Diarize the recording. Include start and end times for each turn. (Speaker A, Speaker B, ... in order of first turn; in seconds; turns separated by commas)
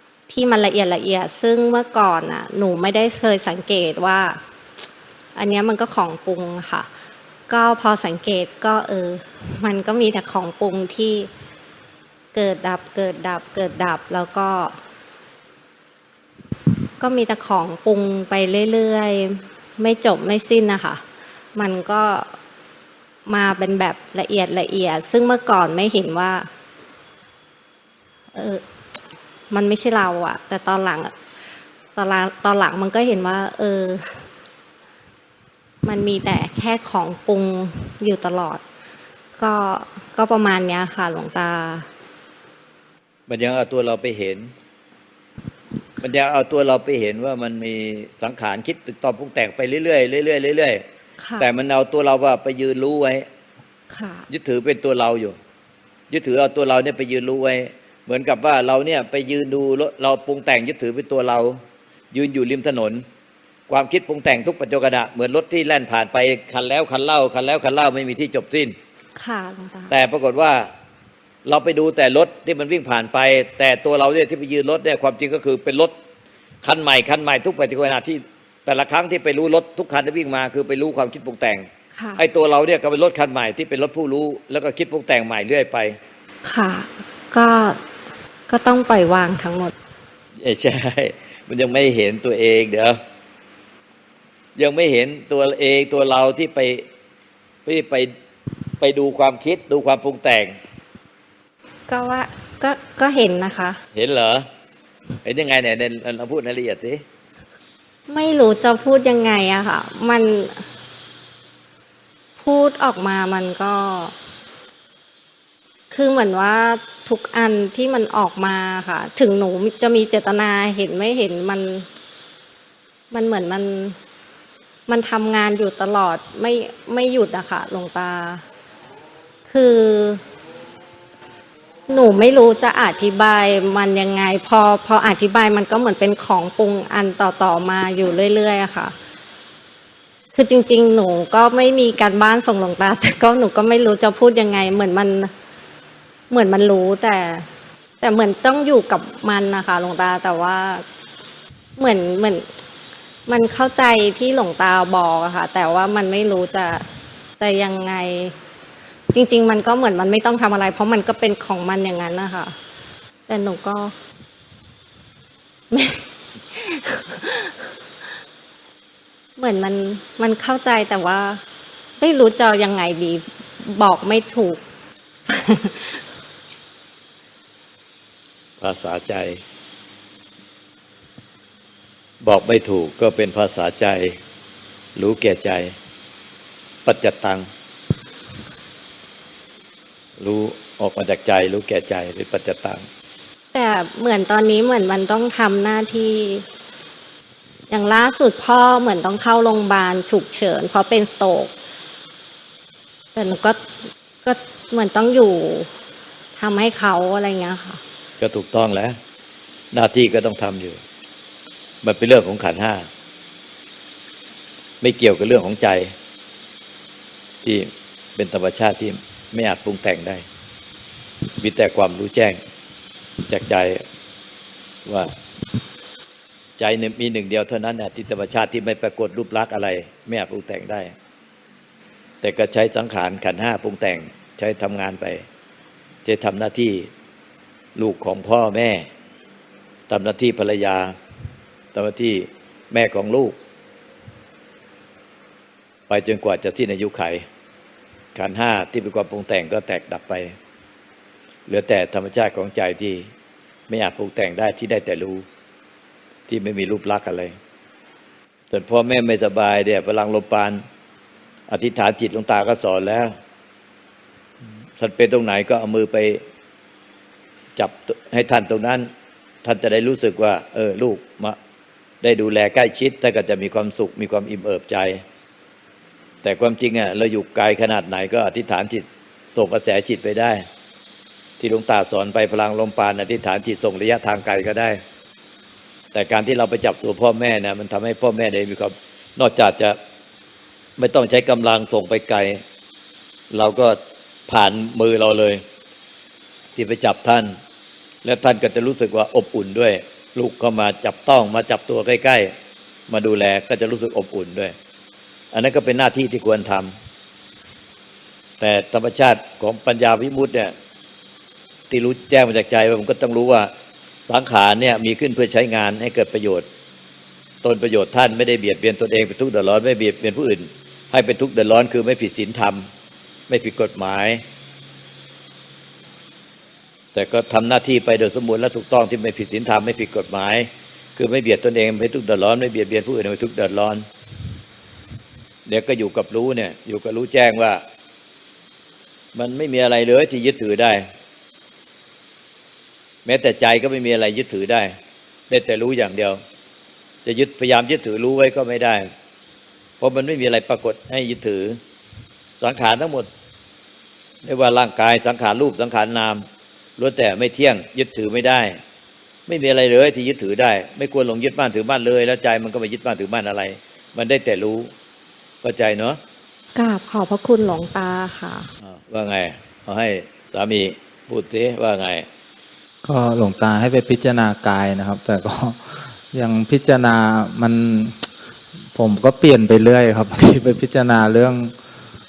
Speaker A: 0.3-4.4, Speaker A: 5.3-6.9, Speaker A: 7.5-11.3, Speaker A: 12.3-14.8, Speaker A: 17.0-21.0, Speaker A: 21.5-22.2, Speaker A: 23.3-26.5, Speaker A: 28.3-28.6, Speaker A: 29.5-31.1, Speaker A: 31.9-34.2, Speaker A: 35.8-38.6, Speaker A: 39.4-41.9, Speaker B: 43.3-44.5, Speaker B: 46.0-50.8, Speaker A: 51.2-51.5, Speaker B: 51.4-53.2, Speaker A: 53.9-54.2, Speaker B: 54.3-55.4, Speaker B: 56.1-61.6, Speaker B: 62.1-63.0, Speaker B: 63.7-68.7, Speaker A: 69.2-69.9, Speaker B: 69.9-70.7, Speaker B: 71.4-75.9, Speaker B: 76.6-81.7, Speaker A: 81.9-82.2, Speaker B: 82.2-86.0, Speaker A: 86.4-87.8, Speaker A: 88.5-89.7, Speaker B: 90.4-93.0, Speaker B: 94.6-96.8, Speaker B: 97.7-98.1, Speaker B: 98.8-100.5, Speaker A: 101.9-103.8, Speaker B: 103.9-104.4, Speaker B: 105.2-107.0, Speaker A: 108.1-110.6, Speaker A: 112.4-114.1, Speaker A: 115.9-121.9, Speaker A: 123.1-124.0, Speaker A: 124.9-128.4, Speaker A: 129.5-130.2, Speaker A: 131.9-138.9, Speaker A: 140.3-145.3, Speaker A: 146.3-147.4, Speaker A: 148.0-150.8, Speaker A: 151.8-152.5, Speaker A: 153.3-156.8, Speaker A: 157.4-158.3, Speaker A: 159.1-162.5, Speaker A: 163.3-163.9, Speaker A: 165.7-167.5, Speaker A: 169.4-171.4, Speaker A: 172.0-174.6, Speaker A: 175.3-176.0, Speaker B: 178.6-179.4, Speaker B: 182.2-184.2, Speaker B: 184.9-185.7, Speaker B: 186.8-187.4, Speaker B: 190.2-192.8, Speaker A: 193.5-196.4, Speaker A: 197.7-201.5, Speaker A: 203.1-203.6, Speaker A: 204.2-205.7, Speaker A: 206.3-207.8, Speaker B: 208.2-208.9, Speaker B: 209.7-210.8, Speaker B: 211.8-212.9, Speaker B: 214.8-215.9, Speaker B: 217.4-220.2, Speaker B: 221.4-222.4, Speaker B: 223.3-223.8, Speaker B: 224.8-225.1, Speaker B: 226.6-230.9, Speaker B: 232.2-235.2, Speaker B: 236.0-236.9, Speaker B: 237.8-238.9, Speaker B: 239.9-240.9, Speaker B: 241.7-243.4, Speaker B: 245.9-247.2, Speaker B: 248.1-250.3, Speaker B: 251.5-253.1, Speaker B: 253.7-255.2, Speaker B: 256.3-257.3, Speaker B: 258.5-260.6, Speaker B: 261.5-263.1, Speaker B: 264.8-266.2, Speaker B: 267.6-268.9, Speaker B: 269.4-271.4, Speaker B: 272.0-275.0, Speaker B: 276.2-280.4, Speaker B: 281.4-284.8, Speaker B: 285.9-289.8, Speaker B: 290.8-292.4, Speaker B: 293.3-295.4, Speaker B: 296.5-297.3, Speaker B: 298.0-302.3, Speaker B: 302.9-304.5, Speaker B: 305.3-306.7, Speaker B: 308.4-310.5, Speaker B: 311.7-313.5, Speaker B: 314.0-316.4, Speaker B: 317.4-322.7, Speaker B: 323.3-324.2, Speaker B: 326.9-333.9, Speaker B: 335.5-337.6, Speaker B: 339.1-340.8, Speaker B: 343.0-344.7, Speaker B: 345.3-346.2, Speaker B: 347.0-348.9, Speaker B: 349.8-351.6, Speaker B: 352.4-353.1, Speaker B: 354.2-356.2, Speaker B: 356.8-358.6, Speaker B: 359.3-364.7, Speaker B: 365.4-366.0, Speaker A: 366.5-368.5, Speaker B: 368.6-372.1, Speaker C: 372.8-378.1, Speaker C: 378.7-381.5